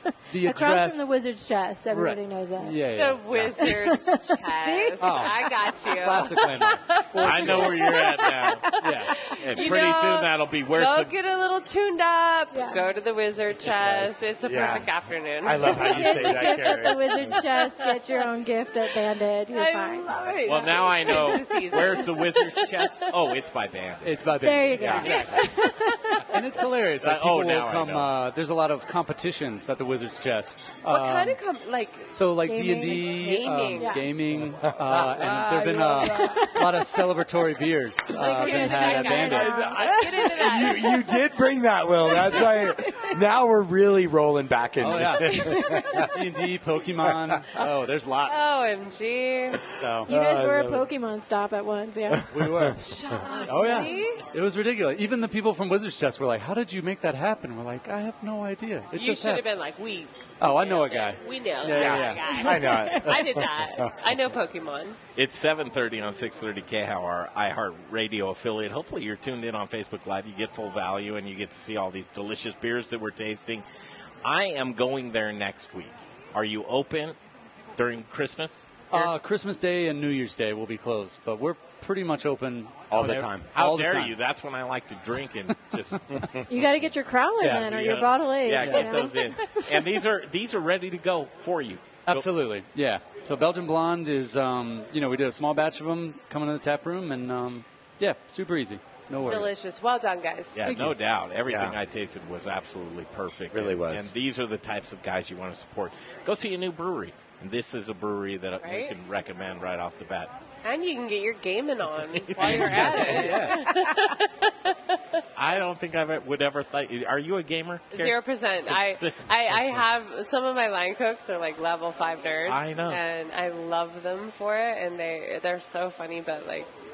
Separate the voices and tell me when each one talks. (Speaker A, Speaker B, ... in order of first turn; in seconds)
Speaker A: 0.3-1.1, 1.9-3.5, 5.0-8.0, 8.8-9.2, 13.9-14.3, 16.1-16.8, 24.0-25.6, 26.3-31.4, 32.1-39.6, 44.8-48.6, 49.7-50.1, 52.3-52.8, 53.4-59.5, 60.4-62.9, 78.9-84.2, 87.4-87.8, 88.6-89.0, 92.1-99.5, 112.4-113.7
Speaker B: 0.3-2.9, 3.6-5.7, 12.5-12.9, 15.7-20.2, 24.4-26.2, 32.4-33.3, 33.8-34.2, 36.0-37.1, 38.2-41.2, 42.1-42.8, 50.1-52.3, 53.6-53.9, 62.4-63.1, 86.5-89.9
Speaker C: 2.9-16.6, 17.3-18.3, 19.5-23.2, 25.0-26.2, 30.9-34.1, 38.1-41.1, 45.2-46.1, 48.3-49.7, 52.8-54.2, 58.9-65.0, 99.2-100.6, 108.6-108.9, 110.6-115.2, 117.9-126.7
Speaker D: 7.2-8.7, 9.3-11.1, 20.5-24.2, 27.0-28.1, 65.2-73.6, 74.2-77.2, 77.8-79.1, 83.5-86.5, 87.5-92.3, 100.5-110.3, 112.2-113.4, 115.4-119.6, 122.5-123.0
Speaker E: 14.4-14.9, 15.4-17.4, 34.6-36.5, 39.2-46.1, 50.1-50.9, 52.4-52.8, 61.7-64.1, 82.9-83.5, 101.5-101.8, 103.5-104.1